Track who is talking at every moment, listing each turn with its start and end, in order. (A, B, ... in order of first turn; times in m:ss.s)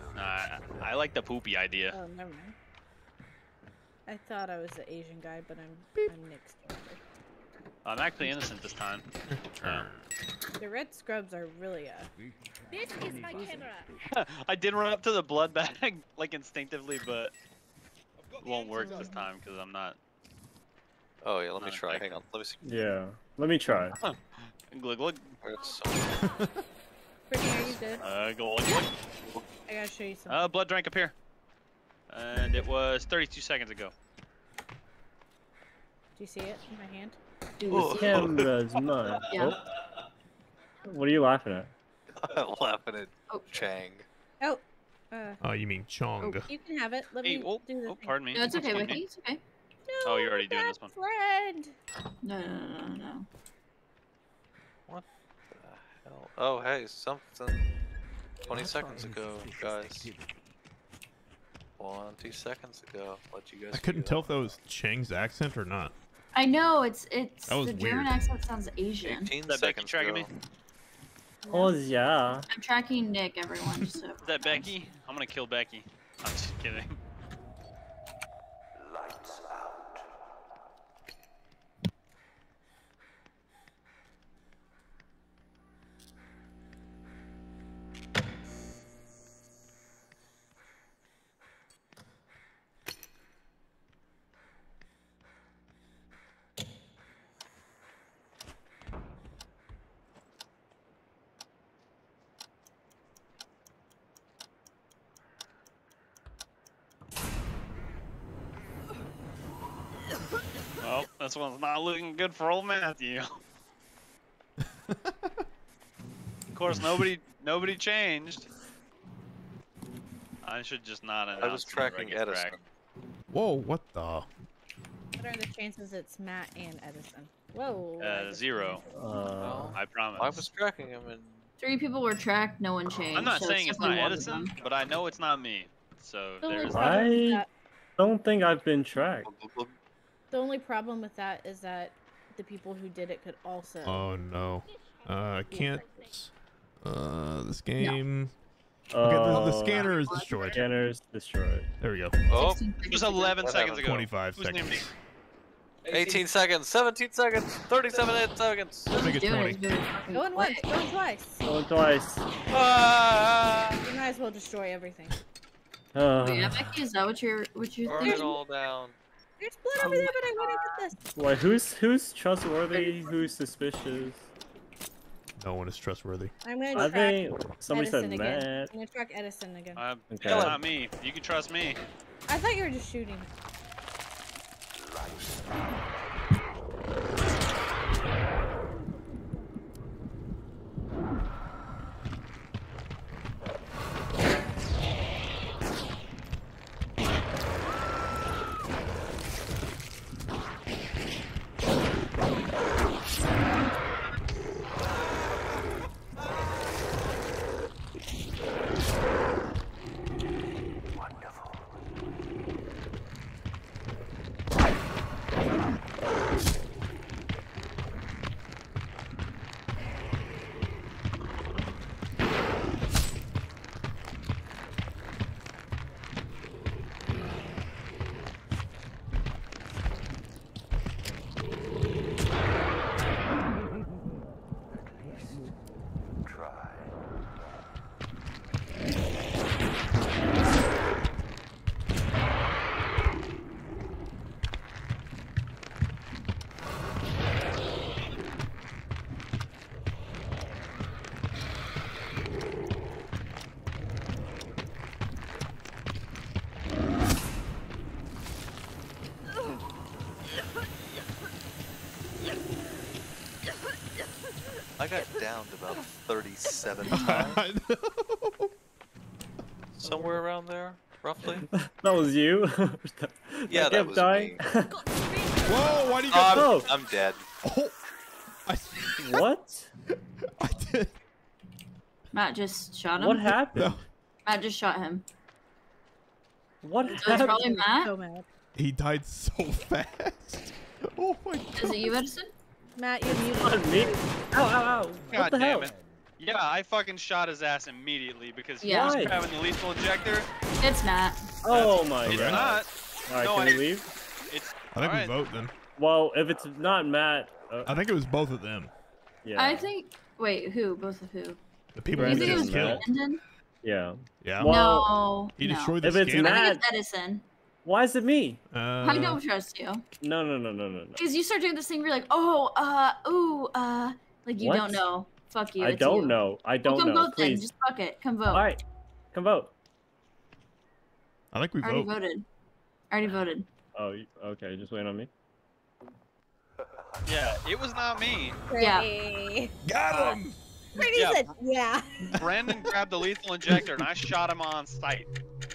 0:00.1-0:02.0 A
0:01.9-0:02.5 B
0:04.0-0:07.0 B
0:07.8-0:09.0 A
0:09.3-0:10.0 C
0:10.6-0:12.1 B
0:12.7-0:13.9 B
0:14.1-0:17.3 A
0:18.4-0:20.0 A
0:18.7-0:19.3 B
0:21.2-0:22.6 D
0:21.6-0:22.1 A
0:22.6-0:24.0 E
0:24.0-0:25.4 A
0:25.4-0:26.1 D
0:26.2-0:26.5 C
0:27.3-0:28.0 B
0:28.0-0:28.9 A
0:29.7-0:30.4 B
0:30.3-0:31.1 A
0:32.1-0:33.9 A
0:36.2-0:37.2 B
0:37.6-0:38.3 F
0:37.7-0:38.5 D
0:37.9-0:39.6 E
0:39.3-0:39.6 F
0:40.8-0:41.7 E
0:42.2-0:44.0 D
0:43.3-0:43.7 F
0:44.4-0:45.4 B
0:45.4-0:46.5 C
0:46.2-0:48.2 B
0:47.2-0:49.0 A
0:48.3-0:49.4 F
0:49.8-0:51.7 B
0:50.0-0:50.9 A
0:52.2-0:53.2 F
0:54.9-0:57.6 D
0:58.4-1:00.1 D
1:01.8-1:04.6 D
1:03.7-1:05.9 C
1:06.3-1:09.3 F
1:07.5-1:08.2 C
1:09.0-1:10.3 D
1:09.4-1:10.3 A
1:11.5-1:12.4 E
1:12.5-1:14.7 F
1:14.2-1:17.0 A
1:50.8-1:53.4 A
1:54.9-1:55.3 C
1:56.5-1:58.5 A
1:56.7-1:57.1 C
2:00.4-2:02.6 A
2:01.4-2:02.6 D
2:03.3-2:04.3 C
2:05.2-2:08.8 B
2:08.0-2:08.8 A
2:08.9-2:09.8 E
2:09.4-2:11.5 D
2:09.7-2:10.5 A
2:11.6-2:14.5 F
2:13.1-2:17.0 A
2:16.4-2:17.5 B
2:16.7-2:17.4 E
2:18.0-2:19.3 E
2:19.2-2:19.7 D
2:20.3-2:24.1 B
2:23.8-2:28.3 C
2:25.5-2:26.0 B
2:28.9-2:29.9 E
2:29.0-2:30.6 C
2:29.3-2:30.6 F
2:30.5-2:31.7 E
2:31.8-2:32.2 C
2:32.3-2:32.6 D
2:32.3-2:33.4 F
2:32.8-2:34.9 A
2:33.4-2:33.9 D
2:33.8-2:34.9 C
2:35.9-2:39.0 D
2:35.9-2:36.2 A
2:38.9-2:40.6 F
2:38.9-2:39.6 C
2:40.1-2:41.5 B
2:41.4-2:42.3 E
2:42.5-2:43.8 A
2:43.8-2:45.2 B
2:45.9-2:46.7 E
2:46.2-2:48.3 F
2:47.8-2:49.0 D
2:48.0-2:48.2 B
2:49.4-2:51.0 B
2:49.8-2:50.8 F
2:51.1-2:54.3 E
2:52.7-2:53.2 F
2:55.4-2:56.3 C
2:56.4-2:59.8 B
2:56.7-2:58.7 E
2:59.8-3:01.8 A
3:00.1-3:00.6 E
3:02.3-3:03.3 B
4:24.8-4:27.4 D
4:26.9-4:28.5 C
4:29.7-4:31.5 D
4:29.8-4:30.2 E
4:31.5-4:34.8 E
4:33.5-4:34.4 D
4:35.4-4:36.7 C
4:36.1-4:37.3 D
4:36.3-4:36.7 E
4:37.4-4:37.8 C
4:38.5-4:39.2 C
4:39.0-4:39.7 E
4:40.4-4:40.9 C
4:42.1-4:43.4 F
4:43.0-4:43.8 E
4:43.5-4:43.9 C
4:44.2-4:45.0 F
4:46.6-4:47.4 E
4:47.0-4:47.9 F
4:47.2-4:48.2 B
4:48.5-4:52.0 C
4:51.6-4:52.3 F
4:52.8-4:54.0 B
4:53.1-4:55.7 E
4:55.1-5:00.3 A
4:58.6-4:59.0 F
4:58.7-4:59.2 E
5:00.6-5:01.2 F
5:01.4-5:03.9 E
5:01.5-5:03.7 A
5:02.0-5:02.5 C
5:04.2-5:05.1 A
5:04.7-5:05.5 C
5:05.8-5:07.8 E
5:07.6-5:08.7 C
5:09.2-5:09.7 E
5:09.4-5:11.4 F
5:11.8-5:12.9 C
5:11.9-5:12.8 E
5:11.9-5:13.2 F
5:13.6-5:14.9 E
5:14.2-5:14.7 C
5:14.4-5:17.2 F
5:15.4-5:16.6 C
5:15.8-5:16.6 E
5:17.6-5:18.4 E
5:18.5-5:19.2 C
5:18.8-5:19.8 F
5:20.0-5:21.0 E
5:21.0-5:28.5 F
5:24.4-5:24.9 E
5:25.6-5:27.5 E
5:28.3-5:29.5 E
5:31.3-5:31.9 C
5:31.6-5:32.2 F
5:32.9-5:33.5 F
5:33.7-5:35.1 E
5:37.0-5:38.4 A
5:38.5-5:40.2 B
5:38.6-5:38.8 F
5:39.6-5:40.4 C
5:39.9-5:40.2 A
5:40.7-5:42.2 B
5:40.9-5:41.3 A
5:42.2-5:45.1 A